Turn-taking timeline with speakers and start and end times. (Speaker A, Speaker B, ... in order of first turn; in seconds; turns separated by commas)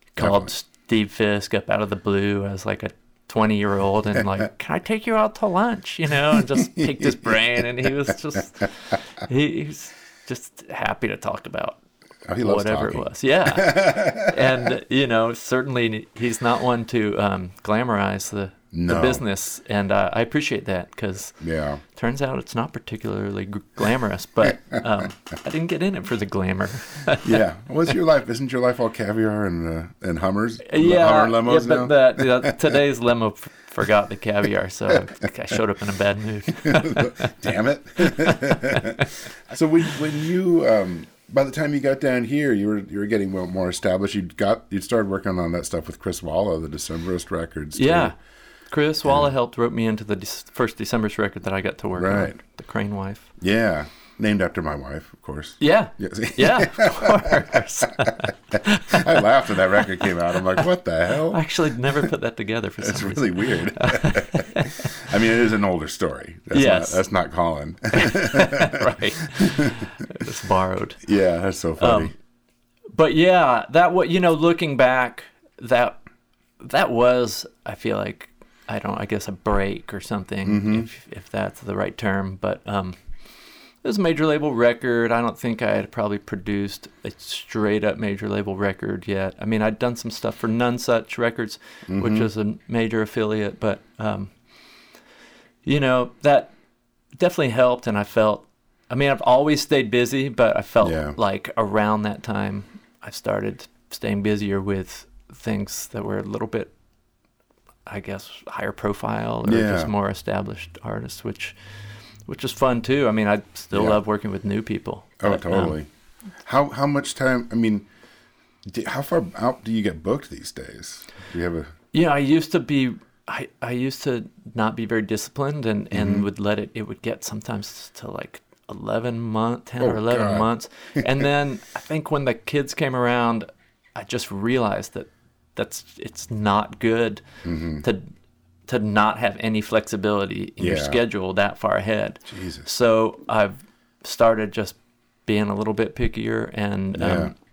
Speaker A: 0.1-8.7, Speaker B: 0.2-0.5, Speaker B: 6.3-7.6, Speaker A: 9.2-11.8, Speaker B: 12.3-14.7, Speaker A: 12.4-21.4, Speaker B: 18.7-19.2, Speaker B: 21.4-21.8, Speaker A: 21.9-27.4, Speaker B: 27.2-32.8, Speaker A: 30.6-37.3, Speaker B: 36.5-48.1, Speaker A: 38.0-39.1, Speaker A: 47.8-48.1, Speaker A: 48.7-53.3, Speaker B: 49.0-49.3, Speaker B: 52.0-52.3, Speaker B: 53.4-62.0, Speaker A: 55.6-60.1, Speaker A: 61.3-65.0, Speaker B: 62.8-69.9, Speaker A: 66.5-67.0, Speaker A: 67.9-71.0, Speaker B: 71.0-72.1, Speaker A: 71.8-72.1, Speaker A: 73.0-76.0, Speaker A: 76.6-83.0, Speaker B: 80.5-80.9, Speaker A: 83.8-94.3, Speaker B: 91.9-92.3, Speaker A: 95.6-96.5, Speaker A: 97.2-106.7, Speaker B: 100.8-101.2, Speaker A: 107.8-111.5, Speaker B: 109.4-109.9, Speaker A: 112.3-115.8, Speaker B: 113.7-114.0, Speaker B: 115.2-115.9, Speaker B: 116.4-117.9, Speaker B: 118.7-121.7, Speaker A: 121.9-137.2, Speaker B: 125.9-126.2, Speaker B: 129.8-131.1, Speaker B: 137.4-137.8, Speaker A: 138.7-144.8, Speaker B: 140.6-141.0, Speaker B: 142.3-142.7, Speaker A: 145.3-147.3, Speaker B: 146.9-147.3